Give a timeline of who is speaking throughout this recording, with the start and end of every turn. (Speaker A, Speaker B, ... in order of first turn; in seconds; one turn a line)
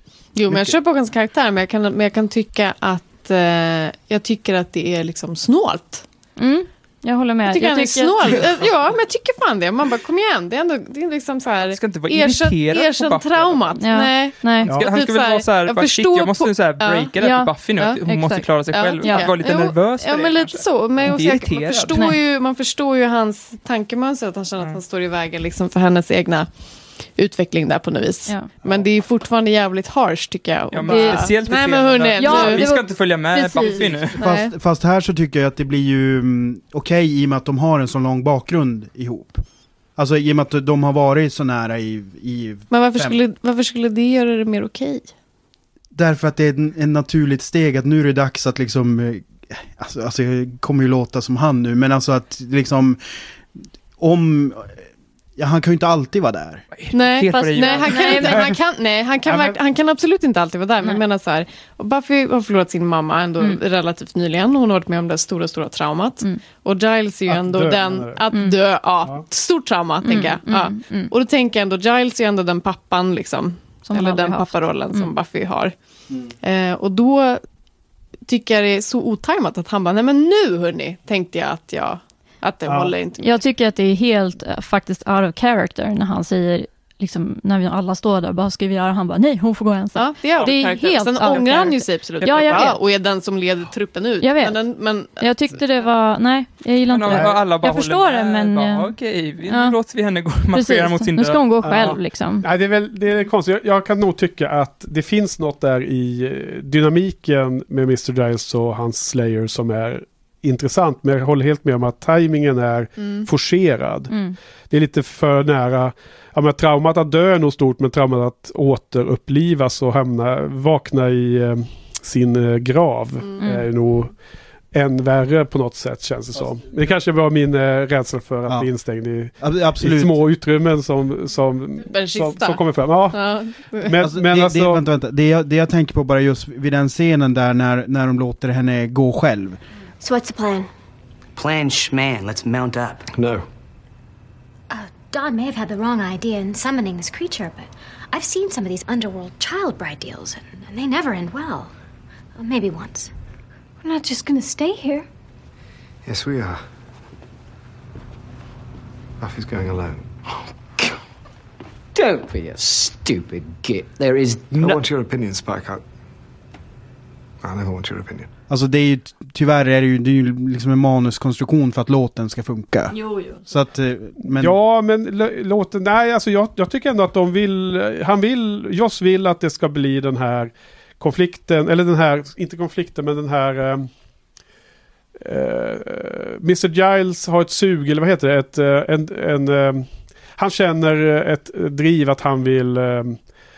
Speaker A: 0.3-6.0
Speaker B: 6.4-8.5
Speaker A: 7.5-17.1
Speaker C: 11.6-13.7
Speaker B: 13.8-14.7
Speaker C: 14.7-22.1
Speaker B: 17.2-19.3
Speaker A: 17.7-32.7
Speaker B: 21.9-22.2
Speaker B: 28.3-28.5
Speaker C: 30.7-34.1
Speaker B: 30.9-31.3
Speaker B: 32.2-34.0
Speaker A: 33.6-34.5
Speaker D: 34.2-39.4
Speaker D: 40.0-43.2
Speaker A: 42.7-45.1
Speaker D: 45.9-53.0
Speaker D: 54.0-54.8
Speaker D: 55.4-56.6
Speaker C: 56.7-58.5
Speaker A: 56.9-75.7
Speaker B: 57.3-58.5
Speaker E: 59.2-59.6
Speaker E: 67.3-68.2
Speaker B: 70.0-71.1
Speaker B: 73.8-75.1
Speaker A: 76.3-77.4
Speaker A: 78.2-83.4
Speaker E: 82.7-82.9
Speaker B: 83.2-92.8
Speaker A: 89.9-95.6
Speaker B: 94.2-99.8
Speaker C: 96.9-101.4
Speaker E: 97.1-97.3
Speaker B: 100.5-102.4
Speaker E: 101.6-114.2
Speaker A: 113.0-113.3
Speaker B: 114.1-114.4
Speaker E: 114.7-124.1
Speaker B: 123.4-123.7
Speaker E: 124.7-134.8
Speaker D: 129.4-130.2
Speaker A: 131.8-133.9
Speaker D: 134.0-139.6
Speaker F: 140.0-140.7
Speaker G: 141.3-143.1
Speaker H: 143.1-143.5
Speaker F: 144.7-151.7
Speaker F: 152.3-153.1
Speaker F: 153.8-155.1
Speaker H: 156.0-156.6
Speaker H: 159.2-160.5
Speaker G: 161.9-164.8
Speaker H: 164.5-165.8
Speaker H: 167.4-168.3
Speaker D: 168.5-174.6
Speaker B: 172.9-173.5
Speaker E: 174.3-183.9
Speaker E: 185.2-193.2